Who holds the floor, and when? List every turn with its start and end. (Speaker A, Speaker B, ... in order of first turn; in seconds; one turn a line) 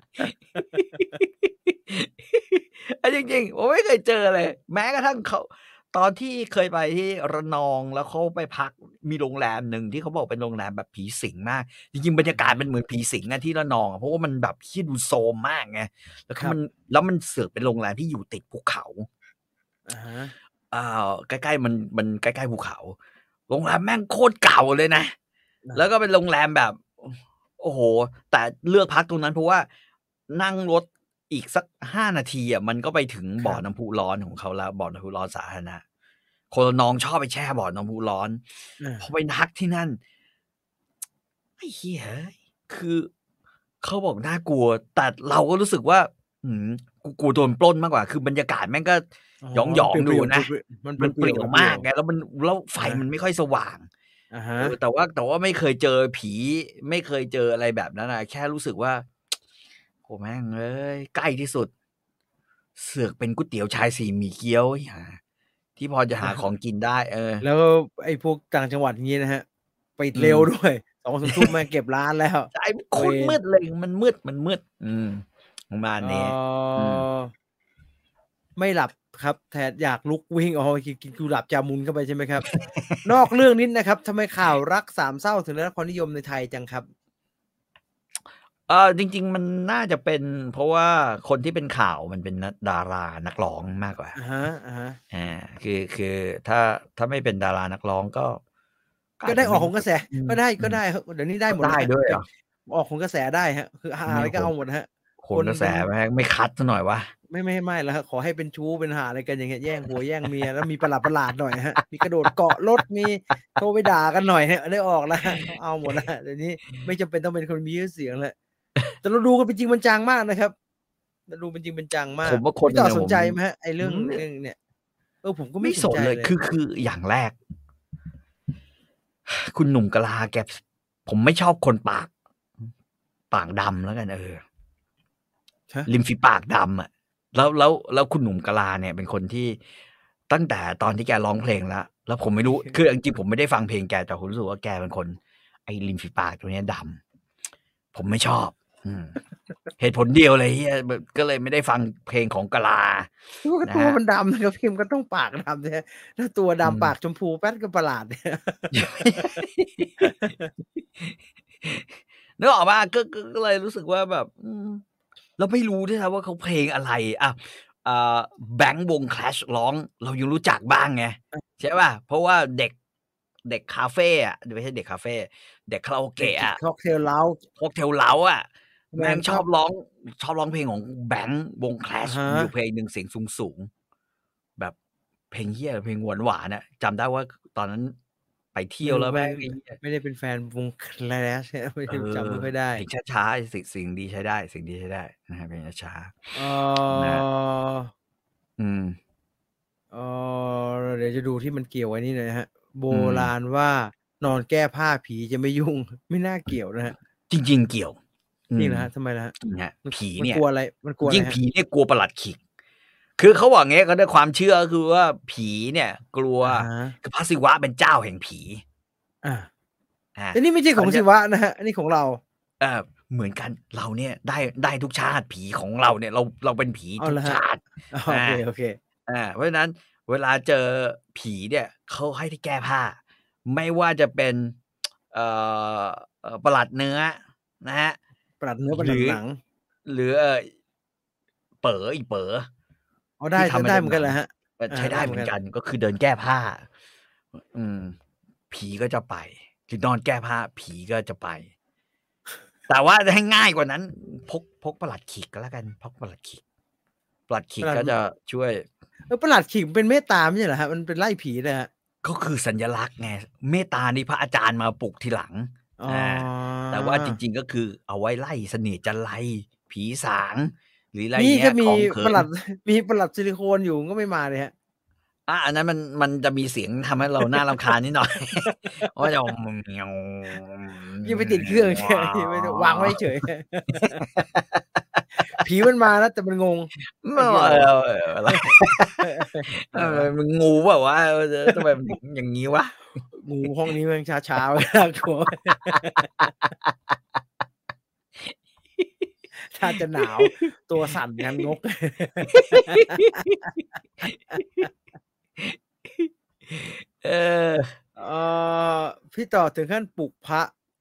Speaker A: 0.2-19.1
Speaker B: 0.8-1.1
Speaker B: 12.3-12.6
Speaker B: 19.9-20.3
Speaker A: 20.7-22.9
Speaker A: 23.5-25.1
Speaker A: 25.7-29.7
Speaker A: 30.3-35.8
Speaker A: 36.5-38.4
Speaker B: 38.8-39.1
Speaker A: 39.0-40.0
Speaker A: 41.6-43.1
Speaker A: 43.8-53.9
Speaker B: 49.4-51.8
Speaker B: 54.3-54.7
Speaker A: 54.6-59.1
Speaker A: 60.0-61.7
Speaker A: 62.8-65.2
Speaker A: 65.8-67.4
Speaker B: 67.4-69.4
Speaker B: 70.0-73.4
Speaker A: 70.2-70.5
Speaker A: 71.3-71.5
Speaker A: 72.5-77.1
Speaker B: 76.0-77.3
Speaker B: 78.6-82.5
Speaker A: 82.5-83.0
Speaker B: 83.0-86.9
Speaker A: 88.7-94.1
Speaker B: 94.2-95.0
Speaker A: 95.1-98.4
Speaker A: 99.2-100.8
Speaker B: 99.2-105.9
Speaker A: 101.5-102.2
Speaker A: 104.1-104.5
Speaker A: 105.2-107.1
Speaker B: 107.3-118.3
Speaker A: 115.3-116.0
Speaker B: 119.0-120.5
Speaker B: 121.3-124.6
Speaker A: 122.2-124.2
Speaker B: 125.2-126.3
Speaker A: 125.6-127.3
Speaker A: 129.3-132.1
Speaker A: 133.3-134.4
Speaker A: 135.9-139.6
Speaker A: 140.3-147.0
Speaker A: 147.9-149.2
Speaker A: 149.8-153.1
Speaker B: 153.4-159.4
Speaker A: 153.6-154.0
Speaker A: 156.6-156.9
Speaker A: 158.7-160.0
Speaker B: 160.0-160.5
Speaker A: 161.0-164.8
Speaker A: 165.4-172.7
Speaker A: 173.4-176.6
Speaker B: 176.2-177.4
Speaker A: 177.6-183.7
Speaker B: 178.9-179.4
Speaker B: 182.0-182.5
Speaker A: 185.3-187.9
Speaker A: 188.5-189.8
Speaker B: 188.8-192.8
Speaker A: 191.9-197.2
Speaker B: 196.3-197.9
Speaker A: 198.6-199.0
Speaker B: 199.9-206.9
Speaker A: 202.9-203.3
Speaker A: 207.3-208.0
Speaker A: 208.5-208.9
Speaker B: 208.6-209.3
Speaker A: 209.4-210.4
Speaker B: 209.8-211.4
Speaker A: 211.0-212.4
Speaker A: 213.2-218.6
Speaker B: 216.4-216.9
Speaker B: 219.2-219.5
Speaker A: 220.2-221.0
Speaker B: 220.3-222.2
Speaker A: 222.6-228.4
Speaker B: 227.0-227.4
Speaker B: 227.9-228.8
Speaker A: 229.1-234.6
Speaker A: 235.1-238.0
Speaker B: 238.4-239.4
Speaker A: 238.7-239.2
Speaker A: 239.8-240.5
Speaker A: 241.6-242.5
Speaker B: 243.2-245.3
Speaker A: 243.3-246.7
Speaker A: 247.4-248.0
Speaker A: 248.5-251.5
Speaker A: 252.7-256.4
Speaker A: 257.3-258.6
Speaker B: 257.6-257.9
Speaker B: 259.1-261.7
Speaker A: 262.0-272.2
Speaker B: 265.8-267.2
Speaker B: 271.1-274.5
Speaker A: 275.3-283.0
Speaker B: 278.4-278.9
Speaker B: 281.0-284.0
Speaker A: 283.8-285.0
Speaker B: 285.2-287.7
Speaker A: 287.0-292.8
Speaker B: 288.3-290.1
Speaker B: 291.5-291.8
Speaker B: 293.1-296.1
Speaker A: 295.5-296.7
Speaker A: 298.2-299.0
Speaker B: 299.4-303.5
Speaker A: 300.0-300.4
Speaker A: 302.3-303.5
Speaker A: 304.0-304.7
Speaker B: 304.3-304.7
Speaker A: 305.4-307.7
Speaker B: 308.0-310.5